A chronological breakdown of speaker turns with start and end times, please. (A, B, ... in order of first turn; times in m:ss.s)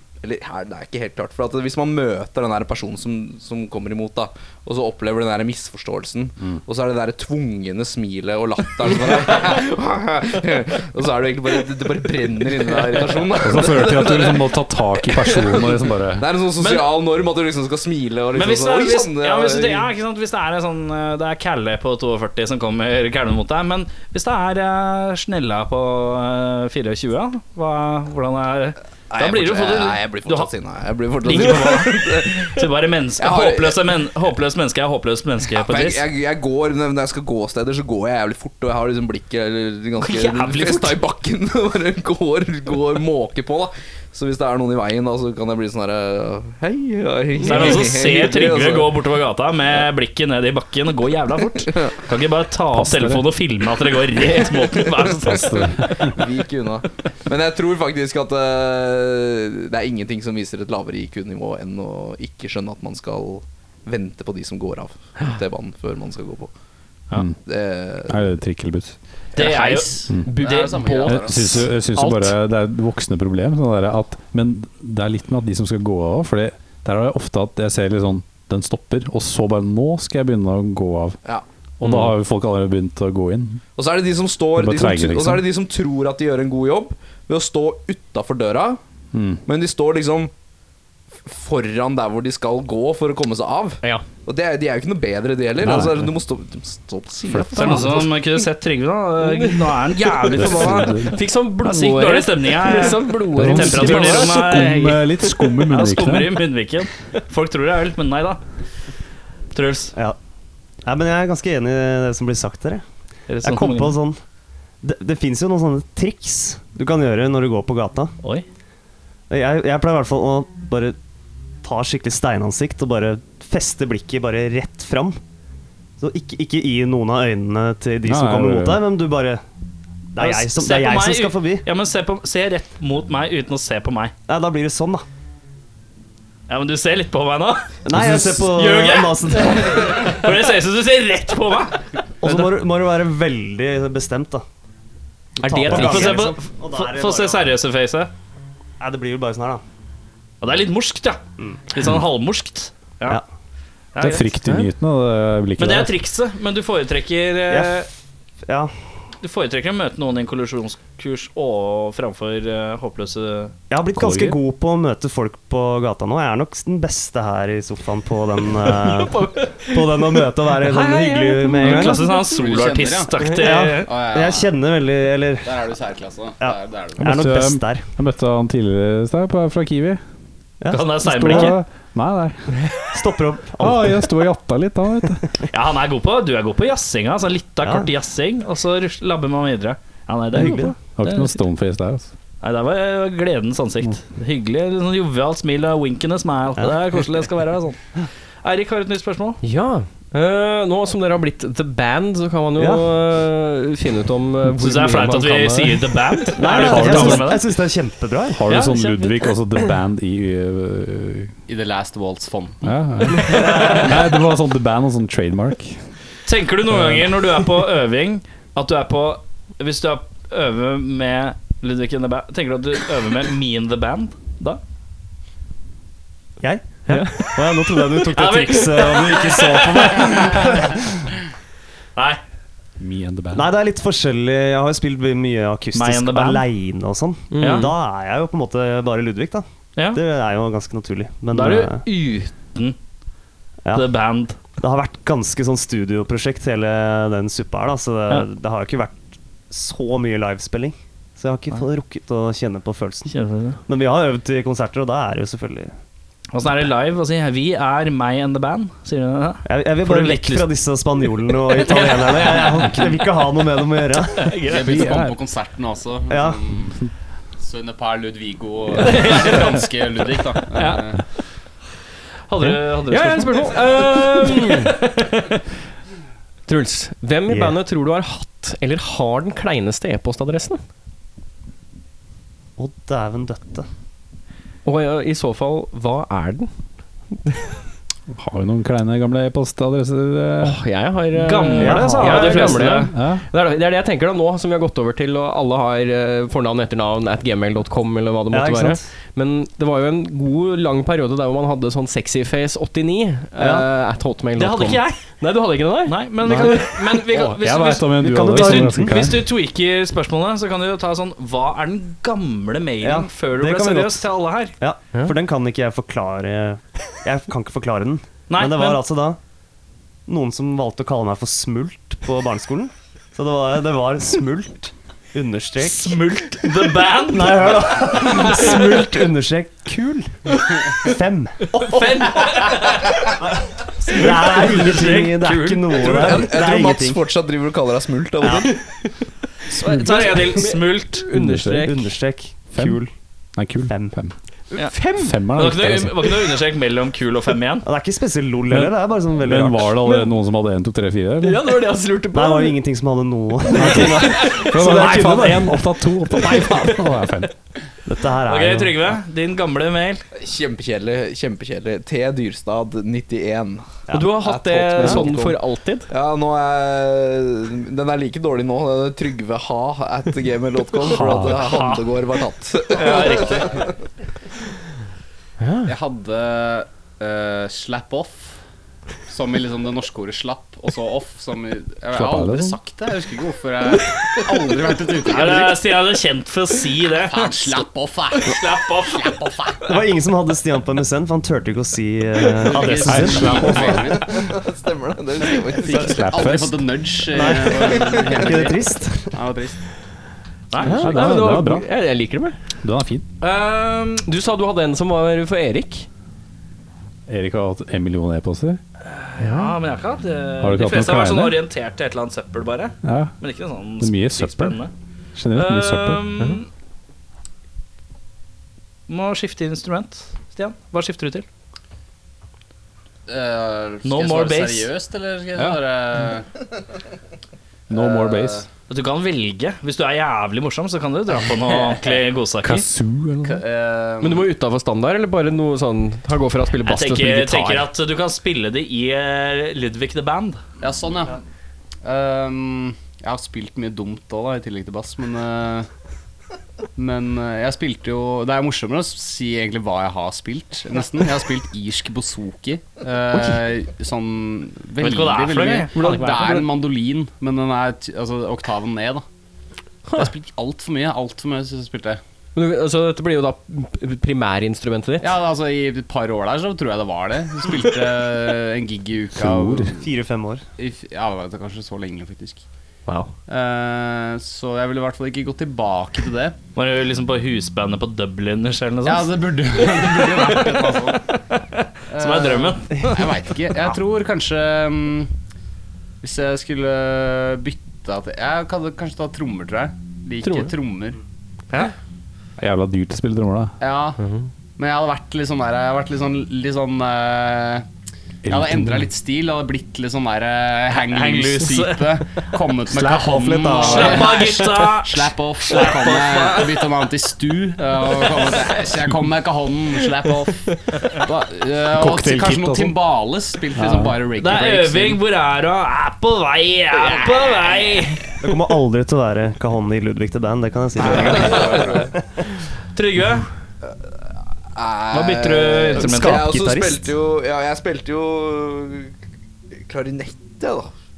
0:00.2-0:14.5 A
0:13.4-0:16.3 B
0:15.2-0:19.9 A
0:16.6-0:16.9 C
0:18.3-0:30.5 C
0:29.1-0:32.6 A
0:31.2-0:36.0 C
0:33.2-0:33.9 A
0:35.5-0:49.0 A
0:40.0-0:41.0 C
0:47.4-0:56.1 C
0:52.7-0:53.3 B
0:55.2-0:56.1 B
0:56.0-1:06.5 A
1:07.4-1:08.2 A
1:08.0-1:09.0 B
1:09.4-1:11.6 C
1:09.4-1:11.7 D
1:10.3-1:11.1 E
1:11.0-1:21.2 B
1:12.0-1:12.3 E
1:21.8-1:23.6 B
1:23.8-1:28.8 A
1:24.6-1:25.4 B
1:29.1-1:29.4 B
1:29.4-1:30.3 A
1:31.2-1:37.7 A
1:35.6-1:36.1 B
1:37.3-1:38.1 B
1:37.5-1:48.4 C
1:39.2-1:45.0 E
1:40.3-1:41.2 B
1:43.3-1:46.4 B
1:49.5-1:49.9 C
1:50.8-1:52.8 F
1:53.3-1:54.0 C
1:53.4-1:54.2 F
1:54.8-1:58.1 F
1:59.3-2:01.0 F
2:01.6-2:05.2 F
2:06.0-2:09.4 F
2:08.0-2:08.8 B
2:10.1-2:11.6 F
2:10.2-2:14.1 C
2:14.3-2:15.0 F
2:16.5-2:17.7 C
2:17.8-2:20.0 F
2:17.9-2:18.4 B
2:18.3-2:22.5 C
2:22.2-2:24.4 F
2:25.4-2:27.4 F
2:25.4-2:26.3 E
2:25.7-2:28.1 C
2:28.8-2:29.6 F
2:30.4-2:33.2 C
2:33.9-2:34.3 C
2:34.0-2:35.9 B
2:35.6-2:37.9 C
2:37.5-2:37.8 F
2:38.4-2:38.7 F
2:39.2-2:43.5 C
2:43.7-2:52.2 F
2:43.9-2:44.4 B
2:48.7-2:52.4 E
2:51.6-2:53.9 C
2:52.2-2:54.5 D
2:53.4-2:55.6 F
2:55.4-2:57.2 D
2:56.4-2:57.8 F
2:57.0-3:00.0 B
3:00.6-3:01.6 F
3:00.7-3:01.6 C
3:00.9-3:02.5 B
3:02.9-3:04.1 F
3:03.6-3:05.2 B
3:05.5-3:11.4 C
3:07.6-3:07.9 F
3:10.3-3:10.7 F
3:10.4-3:12.1 B
3:12.4-3:19.4 C
3:16.6-3:17.0 F
3:19.4-3:26.4 E
3:22.6-3:22.9 F
3:24.6-3:27.5 C
3:26.4-3:28.4 F
3:26.5-3:27.4 B
3:28.3-3:31.3 B
3:28.5-3:29.2 C
3:31.5-3:32.7 D
3:32.6-3:35.8 B
3:33.2-3:33.9 C
3:36.2-3:44.6 C
3:36.7-3:37.1 B
3:46.4-3:50.9 F
3:46.9-3:47.4 E
3:48.1-3:50.6 C
3:52.0-3:52.2 C
3:52.8-3:53.5 B
3:53.3-4:01.8 F
3:55.7-3:56.4 C
3:57.3-3:57.7 E
3:57.4-3:57.7 C
3:59.8-4:00.0 C
4:01.3-4:02.8 C
4:03.7-4:04.4 C
4:04.6-4:13.1 F
4:13.1-4:13.6 C
4:13.7-4:15.7 F
4:16.3-4:20.5 C
4:19.4-4:24.4 F
4:21.4-4:23.0 C
4:24.1-4:25.0 C
4:24.4-4:26.8 D
4:24.6-4:25.1 B
4:26.1-4:26.4 F
4:27.4-4:31.0 D
4:28.8-4:29.6 C
4:30.5-4:30.8 C
4:32.3-4:35.3 C
4:32.9-4:34.8 E
4:36.5-4:40.6 E
4:37.3-4:37.6 F
4:42.6-4:43.7 F
4:44.6-4:46.5 E
4:48.1-4:50.6 B
4:50.4-5:06.7 E
4:51.2-4:52.9 C
4:51.6-4:52.8 F
4:52.9-4:53.2 B
4:58.3-4:58.9 F
5:03.4-5:03.6 F
5:04.4-5:05.0 C
5:05.8-5:14.5 C
5:06.2-5:06.6 F
5:07.1-5:09.3 B
5:08.0-5:09.0 F
5:12.8-5:14.0 F
5:14.6-5:19.2 F
5:18.3-5:18.8 C
5:20.1-5:26.0 F
5:25.6-5:28.8 C
5:27.1-5:32.2 F
5:31.6-5:33.2 C
5:33.8-5:36.2 C
5:33.8-5:37.0 F
5:35.7-5:38.5 A
5:38.2-5:38.5 F
5:39.5-5:41.0 C
5:39.6-5:40.2 B
5:39.8-5:41.8 E
5:41.1-5:41.7 B
5:41.6-5:42.9 F
5:43.4-5:44.1 B
5:43.7-5:43.9 F
5:44.5-5:45.2 E
5:45.0-5:46.2 B
5:45.3-5:47.6 C
5:47.6-5:49.7 F
5:48.5-5:51.5 B
5:51.2-5:52.6 E
5:52.1-5:55.6 F
5:53.5-5:57.3 B
5:56.2-5:56.8 C
5:57.8-5:58.8 F
5:58.2-6:00.0 C
6:00.2-6:05.4 A
6:03.9-6:04.1 F
6:03.9-6:05.9 E
6:04.8-6:05.1 F
6:05.9-6:13.7 A
6:10.9-6:12.0 C
6:10.9-6:11.4 B
6:12.7-6:13.6 C
6:15.4-6:15.7 E
6:15.6-6:18.4 D
6:19.1-6:25.6 D
6:21.9-6:22.6 B
6:25.0-6:27.6 C
6:27.0-6:29.6 D
6:28.2-6:29.2 C
6:29.7-6:33.9 F
6:32.4-6:34.3 D
6:32.8-6:33.9 B
6:33.9-6:36.2 A
6:35.6-6:39.6 D
6:35.6-6:36.6 B
6:37.1-6:39.2 F
6:37.8-6:38.2 A
6:40.5-6:40.9 C
6:40.6-6:42.4 E
6:40.6-6:41.7 B
6:42.6-6:43.0 B
6:43.2-6:44.0 C
6:44.0-6:45.9 E
6:47.1-6:48.6 B
6:48.9-6:54.7 C
6:49.2-6:49.5 E
6:50.4-6:51.4 B
6:52.8-6:53.1 B
6:53.8-6:54.6 B
6:55.2-6:56.0 B
6:55.3-6:56.5 C
6:58.9-7:01.2 C
7:03.1-7:06.3 D
7:03.8-7:04.7 C
7:07.7-7:08.5 B
7:07.7-7:08.4 D
7:08.7-7:12.6 C
7:12.4-7:13.4 B
7:13.2-7:14.3 D
7:14.0-7:17.7 E
7:16.6-7:20.4 C
7:20.6-7:21.2 D
7:21.8-7:25.7 D
7:26.8-7:39.0 D
7:34.8-7:36.4 C
7:36.1-7:36.4 E
7:40.0-7:42.0 D
7:42.3-7:45.2 E
7:45.0-7:49.8 D
7:49.1-7:49.7 B
7:49.7-7:50.4 F
7:50.6-7:52.4 D
7:52.9-7:53.1 E
7:53.3-7:56.4 D
7:56.5-8:03.1 C
7:58.8-8:01.0 D
8:01.9-8:05.1 D
8:06.0-8:11.0 D
8:10.2-8:10.5 E
8:12.4-8:13.5 B
8:13.6-8:14.0 D
8:14.0-8:14.3 E
8:14.6-8:17.6 D
8:18.2-8:18.9 B
8:18.2-8:35.0 D
8:20.7-8:22.3 C
8:22.8-8:26.6 C
8:23.1-8:24.0 F
8:31.7-8:32.8 B
8:33.5-8:34.0 B
8:34.2-8:38.2 C
8:36.8-8:37.6 D
8:38.2-8:41.7 F
8:40.8-8:41.9 A
8:40.9-8:41.4 C
8:42.7-8:43.3 C
8:44.5-8:49.0 A
8:44.9-8:46.3 C
8:45.8-8:46.9 F
8:49.6-8:50.7 A